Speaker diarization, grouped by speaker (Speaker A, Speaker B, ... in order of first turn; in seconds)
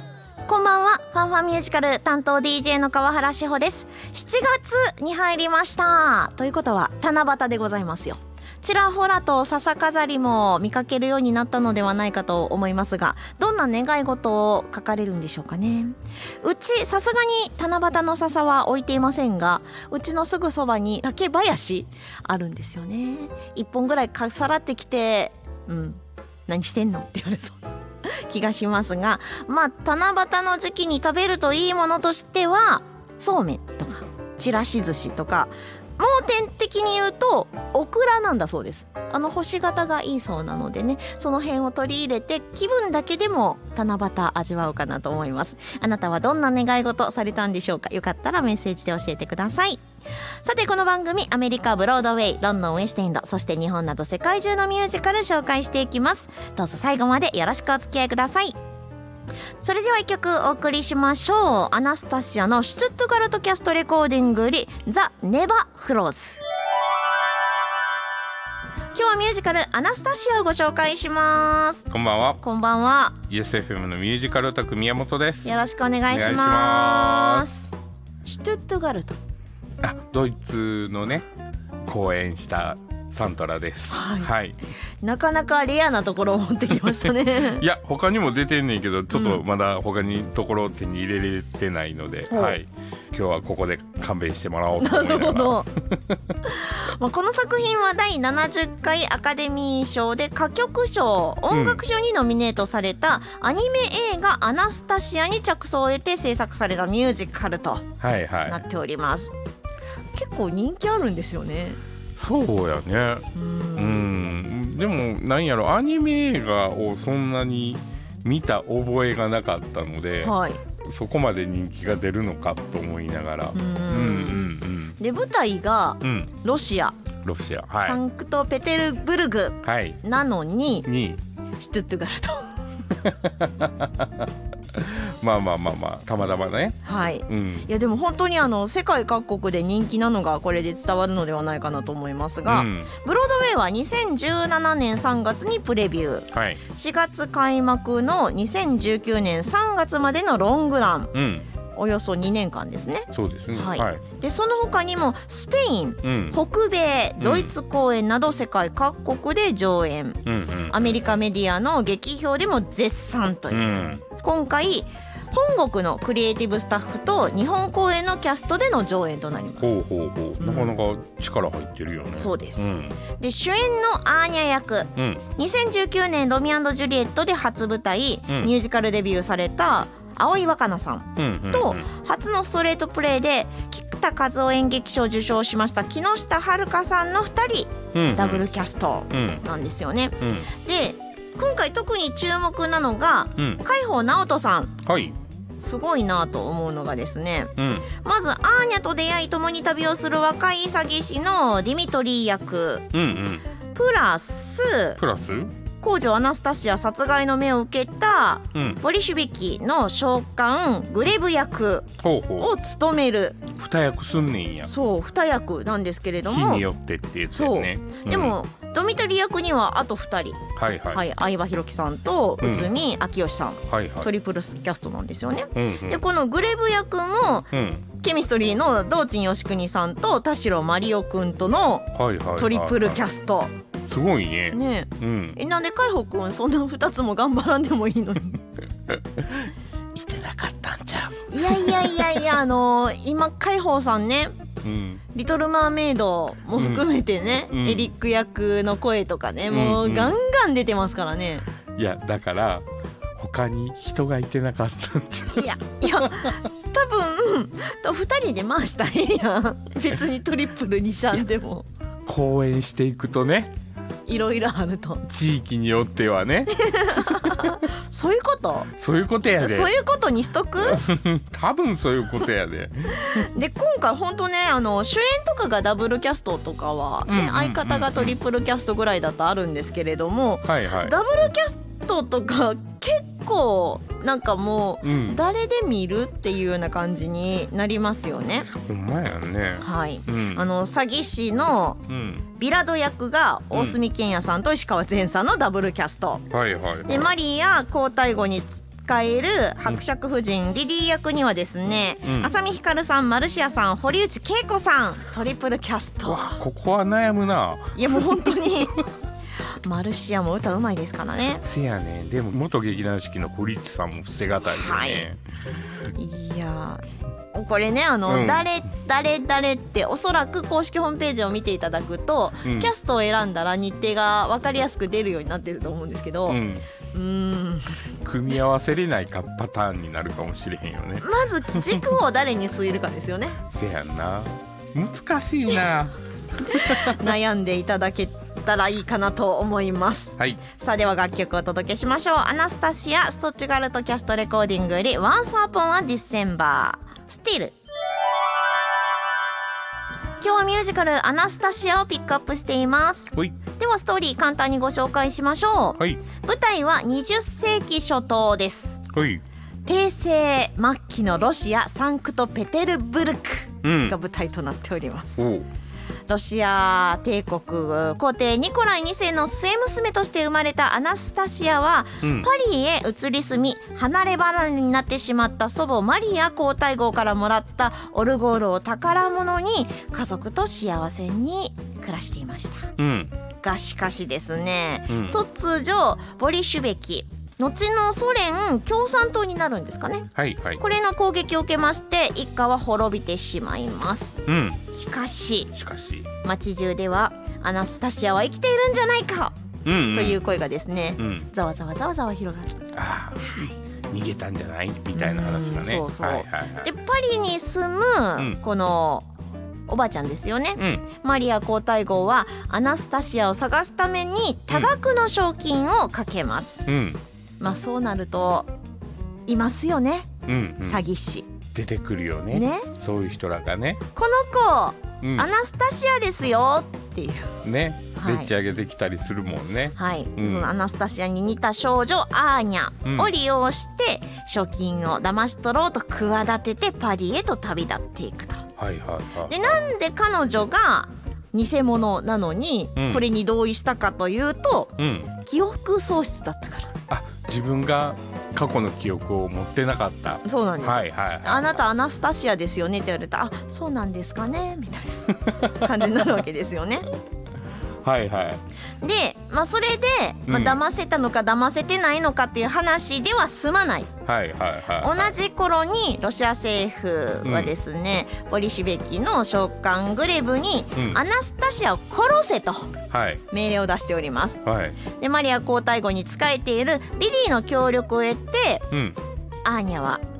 Speaker A: 0.5-49.8, 50.4-58.6, 59.6-66.4, 68.9-71.9, 72.4-73.2, 75.4-77.7, 78.2-79.2, 83.9-84.3, 85.0-87.6, 89.1-89.4, 92.3-92.6, 94.7-95.7, 96.4-107.9, 108.5-109.3, 110.1-111.8, 113.3-114.1, 120.2-120.6, 123.5-127.0, 127.8-130.9, 131.6-132.6, 136.8-151.2, 151.8-169.7, 170.4-170.8, 172.2-194.8, 195.6-202.9, 203.7-205.0, 205.8-213.5, 214.7-216.7, 217.3-233.5, 234.5-238.4, 241.3-244.3, 245.1-251.4, 255.3-261.6, 264.1-265.1, 266.5-268.7, 269.4-270.8, 273.0-288.5, 289.6-291.8, 292.4-296.2, 296.9-306.4, 307.8-308.8, 309.6-311.4, 314.4-315.0, 315.9-326.4, 326.9-327.8, 331.0-333.4, 336.4-347.5, 350.2-358.8, 359.6-365.3, 366.1-382.7, 383.4-390.1, 390.6-395.5, 396.2-399.3, 399.9-402.6, 403.2-403.5, 404.9-409.1, 409.7-416.6, 417.4-418.5, 419.3-420.1, 420.6-421.3, 422.3-422.7, 423.9-427.4, 428.0-428.3, 429.8-438.5, 439.3-446.7, 450.2-456.9, 458.8-463.9, 464.8-472.7, 473.3-474.4, 474.9-478.6, 479.4-480.0
Speaker B: 71.9-72.4, 73.3-77.5, 79.8-81.3, 81.9-84.6, 87.5-96.2, 101.5-101.8, 108.0-108.6, 112.2-125.0, 126.0-126.3, 127.2-128.0, 129.6-130.0, 130.8-131.2, 133.0-137.7, 142.5-142.9, 146.3-146.6, 151.1-151.5, 153.1-154.0, 156.0-156.4, 157.2-157.5, 160.2-161.1, 163.5-164.0, 169.6-173.0, 175.0-175.2, 181.2-181.9, 187.9-188.5, 189.1-189.4, 190.2-190.5, 193.4-193.6, 194.8-195.2, 197.6-197.9, 202.9-203.4, 205.0-205.5, 208.5-208.8, 212.0-212.5, 213.5-214.7, 216.2-218.4, 220.6-221.0, 222.4-222.7, 223.7-224.1, 225.5-226.0, 227.5-227.9, 231.9-233.0, 233.8-235.4, 239.2-242.2, 244.6-245.0, 246.6-246.8, 247.5-247.9, 249.5-250.2, 251.8-252.7, 253.2-256.4, 262.1-263.5, 265.1-267.5, 268.7-269.7, 270.6-273.3, 277.1-278.2, 280.4-280.9, 284.8-285.2, 288.5-290.4, 291.9-292.2, 293.5-293.8, 296.3-297.1, 302.0-302.3, 306.0-308.1, 311.4-315.2, 318.1-318.4, 322.4-322.7, 326.3-326.6, 328.0-331.9, 333.5-337.1, 358.9-359.2, 363.6-363.9, 365.2-365.5, 372.0-372.3, 382.8-383.1, 384.9-385.2, 390.1-390.6, 394.2-394.6, 395.5-396.1, 399.6-400.2, 401.0-401.3, 402.7-406.7, 410.6-410.8, 416.7-417.0, 420.2-420.8, 421.5-423.8, 425.0-425.3, 427.4-430.5, 432.8-433.1, 438.6-439.4, 442.8-443.0, 444.8-445.1, 446.9-451.6, 455.2-456.0, 457.8-458.4, 460.3-460.6, 464.1-465.1, 467.2-467.5, 470.7-471.0, 472.9-473.2, 474.4-474.8, 478.7-479.0